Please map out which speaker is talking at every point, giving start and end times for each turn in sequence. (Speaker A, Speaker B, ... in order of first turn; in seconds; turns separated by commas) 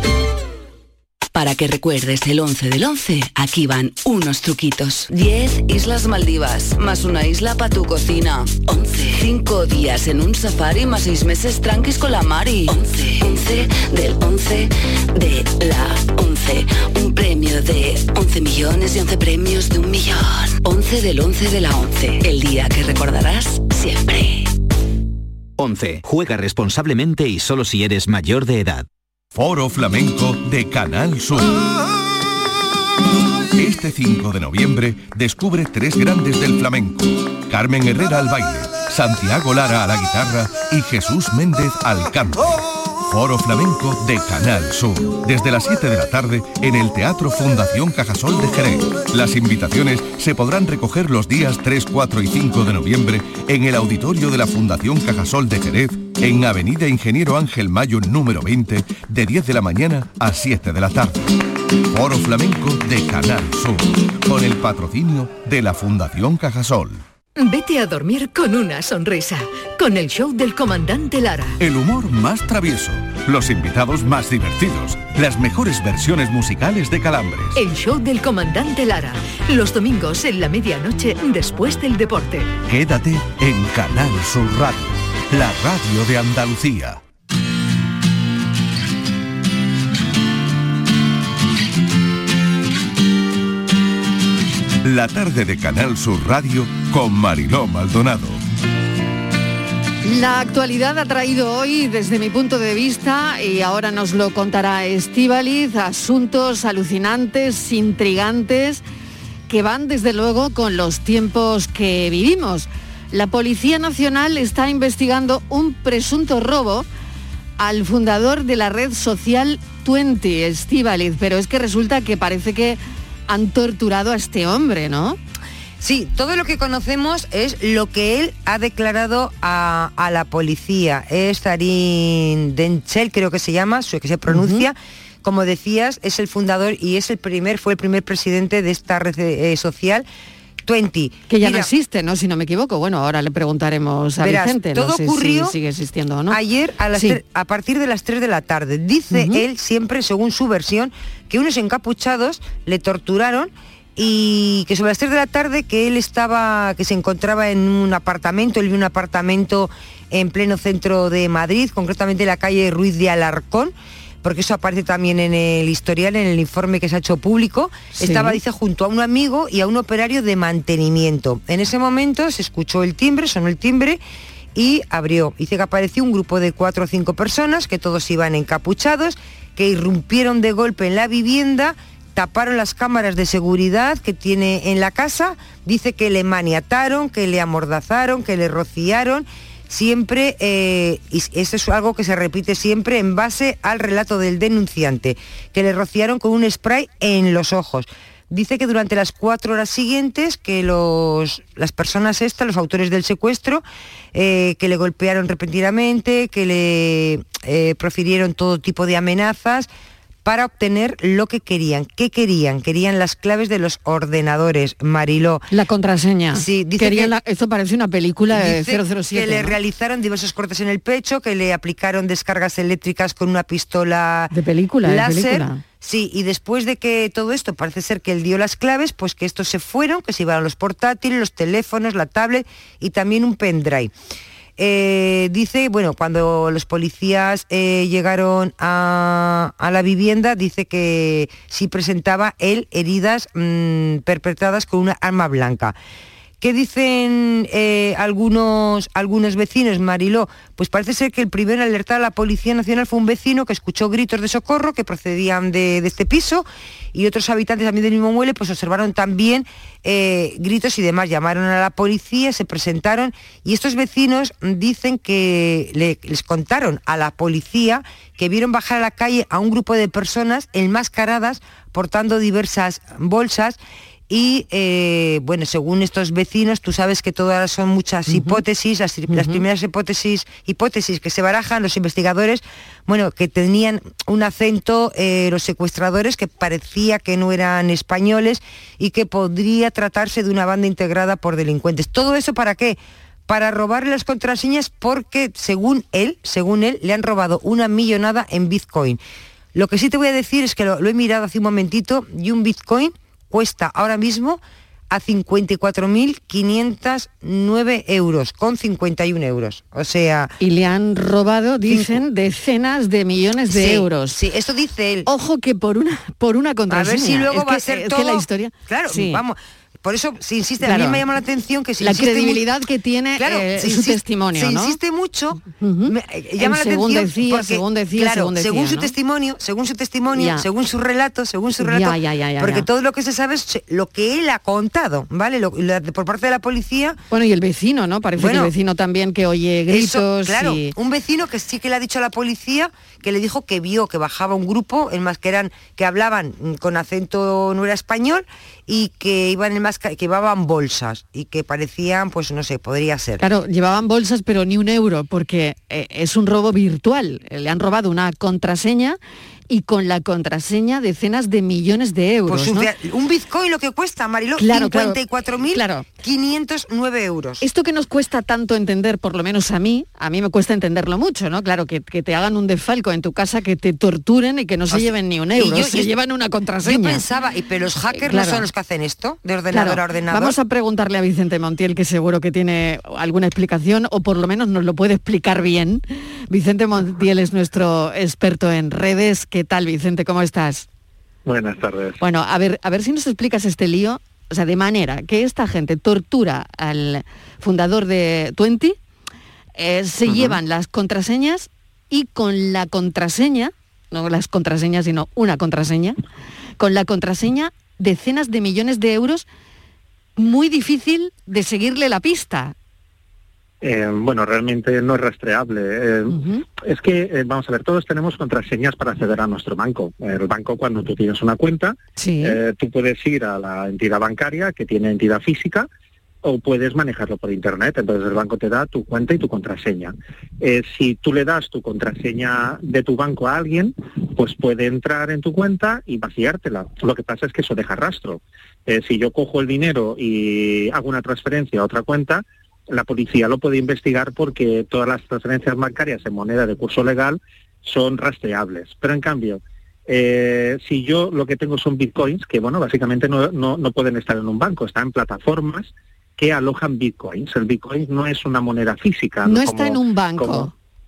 Speaker A: 1.3-24.5, Speaker B: 25.6-28.9, Speaker C: 29.3-31.6, Speaker C: 33.6-61.2, Speaker C: 61.9-67.0, Speaker D: 67.4-71.6, Speaker C: 71.6-77.6, Speaker D: 77.5-82.5, Speaker C: 82.7-87.0, Speaker C: 94.8-98.4, Speaker E: 100.0-108.8, Speaker E: 109.5-116.8, Speaker E: 117.6-125.2, Speaker F: 125.8-140.0, Speaker E: 134.3-134.7, Speaker F: 140.6-141.7, Speaker E: 141.3-146.4, Speaker F: 144.2-145.6, Speaker F: 146.3-174.0, Speaker E: 149.1-149.4, Speaker E: 167.9-168.4, Speaker F: 174.5-209.7, Speaker F: 210.2-215.5, Speaker E: 215.5-219.6, Speaker F: 216.3-217.1, Speaker F: 218.3-233.9, Speaker E: 224.3-225.6, Speaker F: 234.6-245.7, Speaker F: 246.4-273.6, Speaker F: 274.1-299.0, Speaker E: 278.1-278.4, Speaker E: 279.1-279.4, Speaker F: 299.5-310.3, Speaker E: 310.4-314.2, Speaker F: 311.7-312.0, Speaker F: 313.5-315.1, Speaker E: 315.1-319.2, Speaker F: 316.7-322.4, Speaker E: 320.6-321.0, Speaker E: 321.8-324.8, Speaker F: 323.2-337.0, Speaker E: 325.6-328.9, Speaker E: 330.1-330.4, Speaker E: 331.6-332.7, Speaker E: 337.1-340.7, Speaker F: 338.1-338.5, Speaker F: 339.7-353.2, Speaker E: 353.2-359.0, Speaker E: 359.5-362.7, Speaker F: 362.3-367.4, Speaker E: 364.4-365.9, Speaker E: 367.4-377.0, Speaker F: 374.7-375.9, Speaker F: 376.6-380.4, Speaker E: 377.9-378.4, Speaker E: 379.5-390.6, Speaker G: 391.2-392.0, Speaker E: 392.0-398.8, Speaker E: 399.6-406.0, Speaker G: 400.1-400.4, Speaker E: 406.6-409.2, Speaker E: 410.2-412.5, Speaker G: 413.6-425.7, Speaker E: 416.1-416.4, Speaker E: 422.0-422.4, Speaker G: 426.2-460.5, Speaker E: 459.2-460.5